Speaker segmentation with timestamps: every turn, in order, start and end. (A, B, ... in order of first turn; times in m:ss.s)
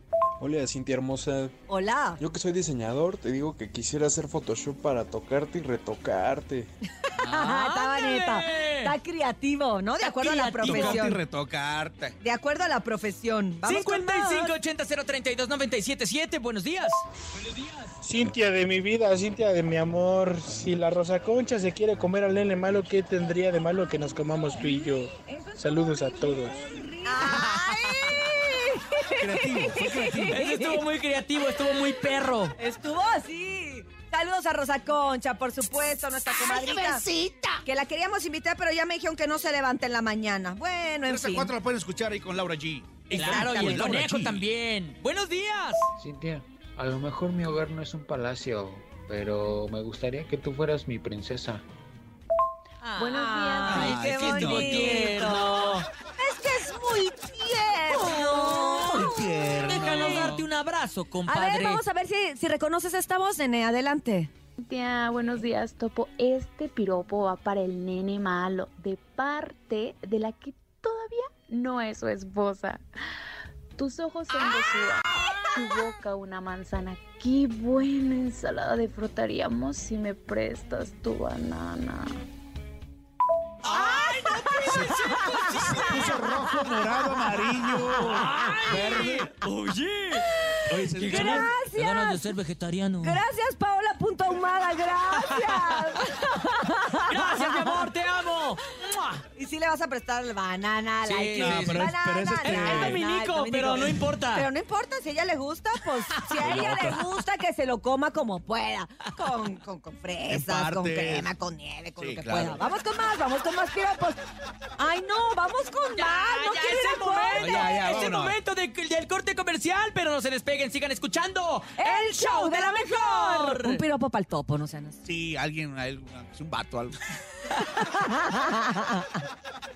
0:00.4-0:01.5 A
0:01.7-0:02.2 B
0:02.2-0:06.7 A
0:07.2-0:08.9 C
0:07.3-0:11.2 B
0:10.0-0:11.1 C
0:10.2-0:12.2 D
0:12.2-0:14.5 B
0:13.6-0:17.9 C
0:18.0-0:26.6 E
0:24.5-0:30.8 B
0:27.1-0:27.4 D
0:27.2-0:28.3 C
0:29.2-0:30.4 D
0:30.3-0:32.5 C
0:32.6-0:37.0 B
0:36.6-0:37.6 C
0:37.6-0:41.5 B
0:41.1-0:44.5 D
0:43.1-0:45.8 C
0:43.2-0:44.0 B
0:46.0-0:51.6 F
0:52.8-0:55.8 C
0:53.0-0:54.0 G
0:53.1-0:59.3 B
0:53.7-0:55.1 D
0:57.9-1:01.8 C
0:58.1-1:00.5 D
1:01.2-1:04.3 B
1:04.6-1:12.8 G
1:13.8-1:22.1 G
1:23.6-1:26.0 C
1:23.7-1:27.5 B
1:24.6-1:29.3 D
1:27.9-1:33.2 C
1:28.7-1:29.1 B
1:30.1-1:32.3 B
1:30.7-1:31.5 D
1:33.0-1:37.9 B
1:35.2-1:36.3 C
1:37.1-1:39.2 C
1:39.3-1:54.2 B
1:41.0-1:44.5 C
1:41.4-1:43.0 D
1:46.3-1:47.2 C
1:46.3-1:46.9 D
1:50.3-1:51.3 D
1:52.0-1:52.6 D
1:54.8-1:58.0 B
1:55.9-2:03.8 C
1:57.4-1:58.4 D
2:01.8-2:05.0 B
2:05.0-2:07.0 D
2:07.8-2:09.0 B